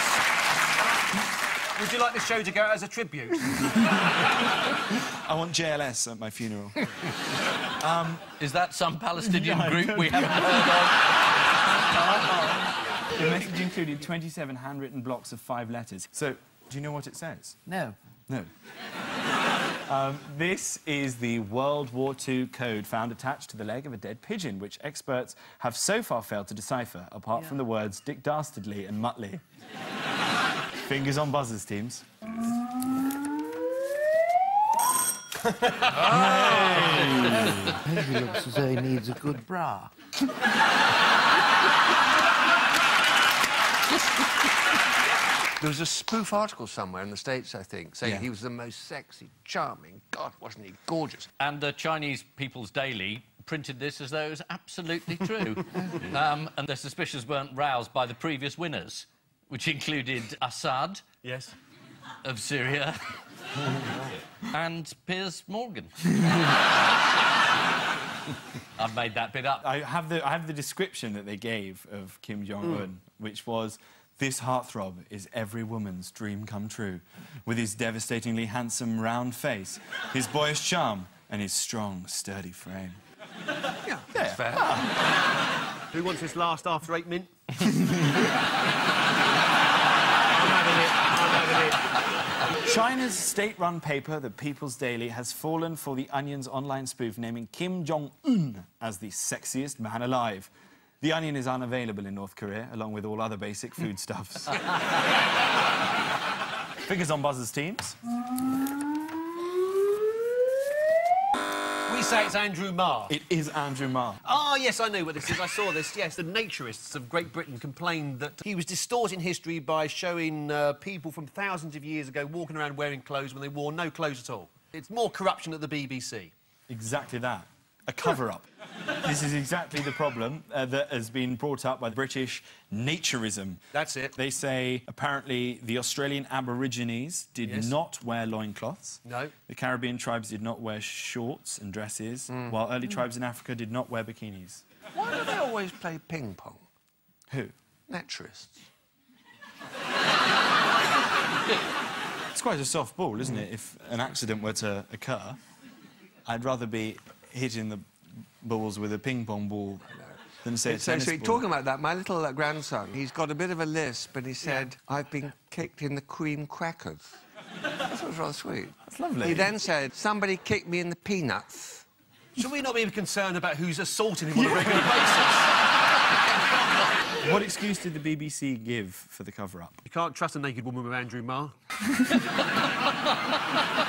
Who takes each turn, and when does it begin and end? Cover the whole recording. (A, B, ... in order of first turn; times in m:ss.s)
0:01.7-0:03.7 A
0:05.0-0:07.0 B
0:07.8-0:08.2 B
0:08.4-0:11.1 C
0:09.2-0:10.9 B
0:11.9-0:12.6 B
0:13.1-0:17.6 B
0:17.6-0:18.0 D
0:19.9-0:29.4 B
0:30.8-0:32.1 B
0:35.4-0:37.6 A
0:36.0-0:37.8 B
0:37.1-0:39.9 D
0:45.6-0:51.3 E
0:48.0-0:48.3 B
0:51.4-1:01.0 C
1:01.2-1:01.5 A
1:02.2-1:03.2 C
1:04.4-1:06.2 C
1:08.8-1:09.6 C
1:09.6-1:23.0 B
1:23.8-1:24.8 E
1:24.1-1:25.0 B
1:25.9-1:27.3 A
1:27.6-1:28.2 B
1:30.3-1:31.8 A
1:32.6-1:44.6 B
1:46.8-1:48.0 B
1:51.8-1:53.1 A
1:53.1-1:54.2 B
1:54.2-2:06.3 A
2:06.7-2:08.4 B
2:09.0-2:13.6 B
2:13.7-2:14.2 A
2:14.2-2:24.6 B
2:17.4-2:17.7 A
2:19.0-2:19.3 A
2:24.9-2:26.6 E
2:27.9-2:28.7 E
2:32.3-2:35.4 B
2:36.2-2:37.9 B
2:38.4-2:41.4 B
2:40.0-2:47.2 E
2:47.8-2:51.8 E
2:48.9-2:49.5 B
2:52.4-2:55.5 A
2:54.3-2:54.9 B
2:57.2-2:59.8 B
2:59.8-3:01.5 A